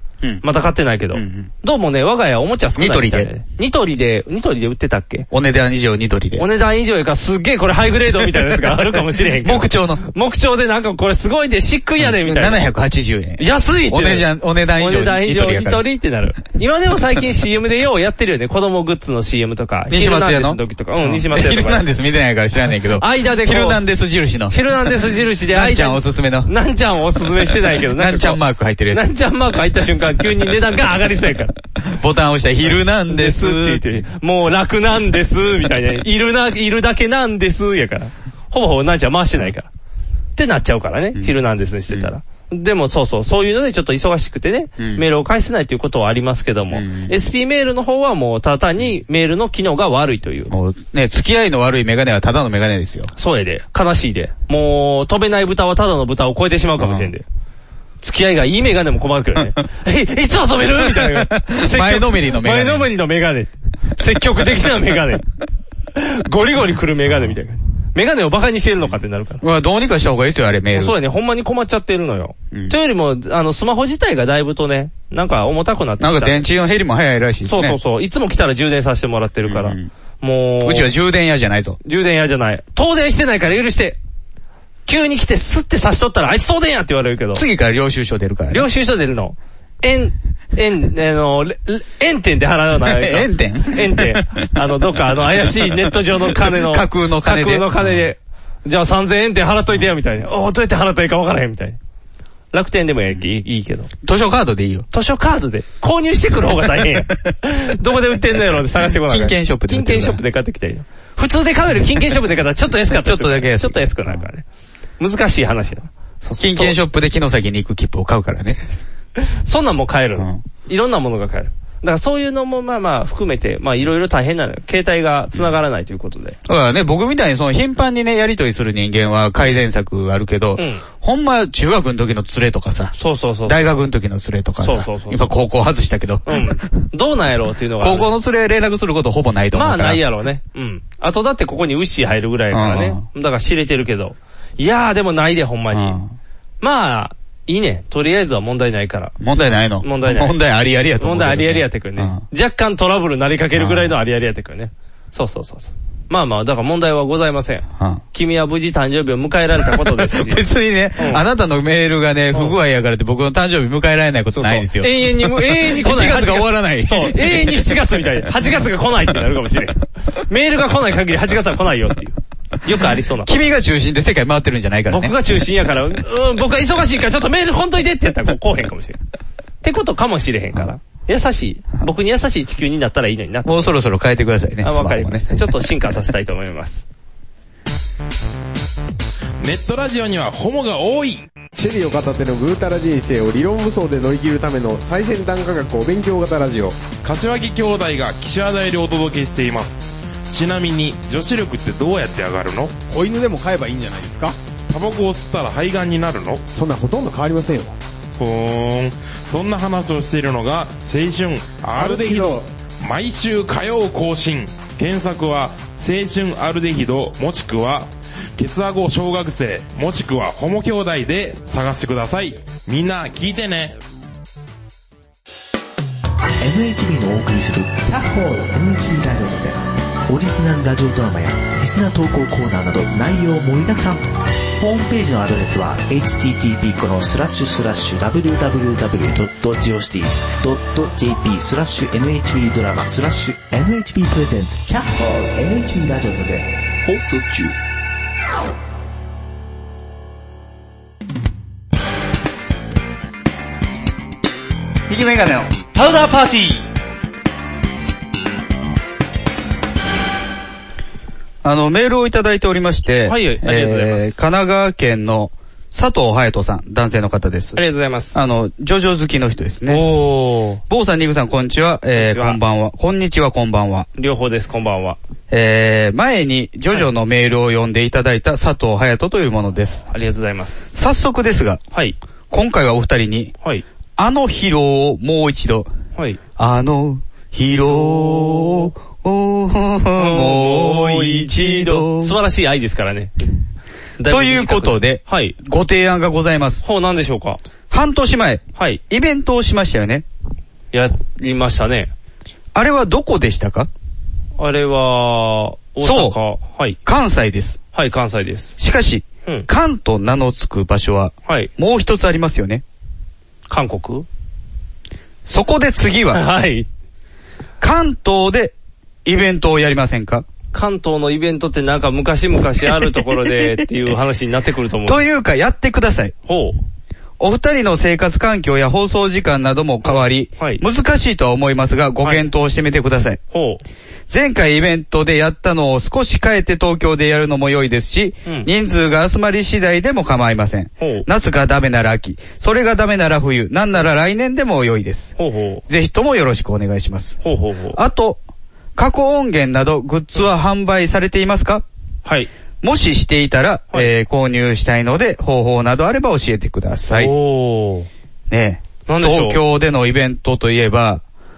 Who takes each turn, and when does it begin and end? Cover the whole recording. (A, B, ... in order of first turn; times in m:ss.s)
0:00.4-0:05.3 A
0:01.1-0:01.5 B
0:02.8-0:03.3 B
0:05.3-0:06.4 B
0:06.4-0:12.6 A
0:09.4-0:10.0 B
0:12.0-0:15.8 B
0:13.4-0:21.8 A
0:19.9-0:24.6 B
0:23.0-0:23.8 A
0:24.5-0:31.5 A
0:25.5-0:26.5 B
0:27.9-0:29.0 B
0:31.8-0:33.9 B
0:32.6-0:39.7 A
0:40.4-0:50.5 A
0:44.8-0:45.0 B
0:46.7-0:47.2 B
0:50.5-0:53.1 B
0:53.2-0:57.2 A
0:56.8-0:57.1 B
0:58.0-1:05.2 A
1:00.8-1:02.9 B
1:05.9-1:09.4 A
1:08.8-1:10.9 B
1:10.7-1:16.4 A
1:16.0-1:17.8 B
1:17.4-1:20.9 A
1:19.4-1:19.9 B
1:20.6-1:21.8 B
1:21.8-1:24.0 A
1:24.9-1:27.4 A
1:27.3-1:28.6 B
1:28.5-1:41.8 A
1:32.8-1:34.5 B
1:35.9-1:38.0 B
1:42.5-1:43.9 A
1:44.0-1:44.9 B
1:44.9-1:54.4 A
1:48.8-1:50.2 B
1:52.9-1:54.2 B
1:55.0-1:56.8 A
1:56.4-1:58.6 B
1:59.2-2:06.4 A
2:00.2-2:00.4 B
2:06.5-2:12.9 B
2:10.6-2:10.8 A
2:12.9-2:13.8 A
2:13.4-2:16.8 B
2:14.6-2:15.3 A
2:16.2-2:18.1 A
2:17.8-2:20.0 B
2:19.5-2:26.0 A
2:22.5-2:23.0 B
2:25.7-2:26.1 B
2:26.6-2:29.1 A
2:29.2-2:32.2 B
2:29.8-2:30.4 A
2:31.0-2:40.4 A
2:33.5-2:33.9 B
2:40.0-2:47.7 B
2:41.0-2:41.2 A
2:44.3-2:53.3 A
2:53.2-2:55.2 B
2:54.9-2:59.0 A
2:59.6-3:03.7 A
3:03.4-3:05.7 B
3:04.6-3:06.8 A
3:09.4-3:11.2 C
3:11.5-3:16.8 D
3:17.0-3:22.7 C
3:22.9-3:24.4 D
3:24.7-3:26.4 C
3:26.5-3:27.8 D
3:28.2-3:43.8 C
3:31.8-3:32.4 D
3:46.4-3:49.6 E
3:50.1-3:54.0 E
3:54.6-4:06.5 E
4:07.0-4:07.4 E
4:14.9-4:16.6 B
4:21.4-4:27.6 B
4:23.0-4:24.1 A
4:27.6-4:28.2 A
4:28.1-4:29.8 B
4:29.7-4:30.6 A
4:30.7-4:33.9 B
4:32.0-4:32.4 A
4:34.0-4:35.0 A
4:35.3-4:39.9 B
4:39.9-4:40.7 A
4:40.7-4:41.6 B
4:41.7-4:42.0 A
4:42.3-4:43.3 B
4:44.0-4:45.7 B
4:46.4-4:52.2 B
4:49.9-4:53.1 A
4:54.0-4:55.4 A
4:54.0-4:56.6 B
4:56.6-4:57.4 A
4:57.7-5:00.0 B
4:58.6-4:58.8 A
5:00.7-5:01.9 A
5:02.5-5:03.7 B
5:04.4-5:06.8 A
5:05.8-5:06.2 B
5:06.8-5:07.6 B
5:07.7-5:08.6 A
5:08.6-5:12.6 B
5:13.5-5:14.0 A
5:15.2-5:16.2 B
5:16.1-5:16.7 A
5:17.6-5:18.5 B
5:19.0-5:20.2 B
5:20.5-5:25.0 A
5:24.9-5:26.1 B
5:26.3-5:26.6 A
5:27.2-5:33.2 B
5:29.8-5:30.6 A
5:33.3-5:33.6 A
5:34.1-5:45.1 B
5:40.8-5:41.0 A
5:45.2-5:45.6 A
5:45.7-5:47.2 B
5:47.2-5:47.8 A
5:47.7-5:48.2 B
5:48.8-5:51.6 B
5:52.6-5:57.1 B
5:56.9-5:57.9 A
5:58.3-6:01.0 B
5:58.9-5:59.4 A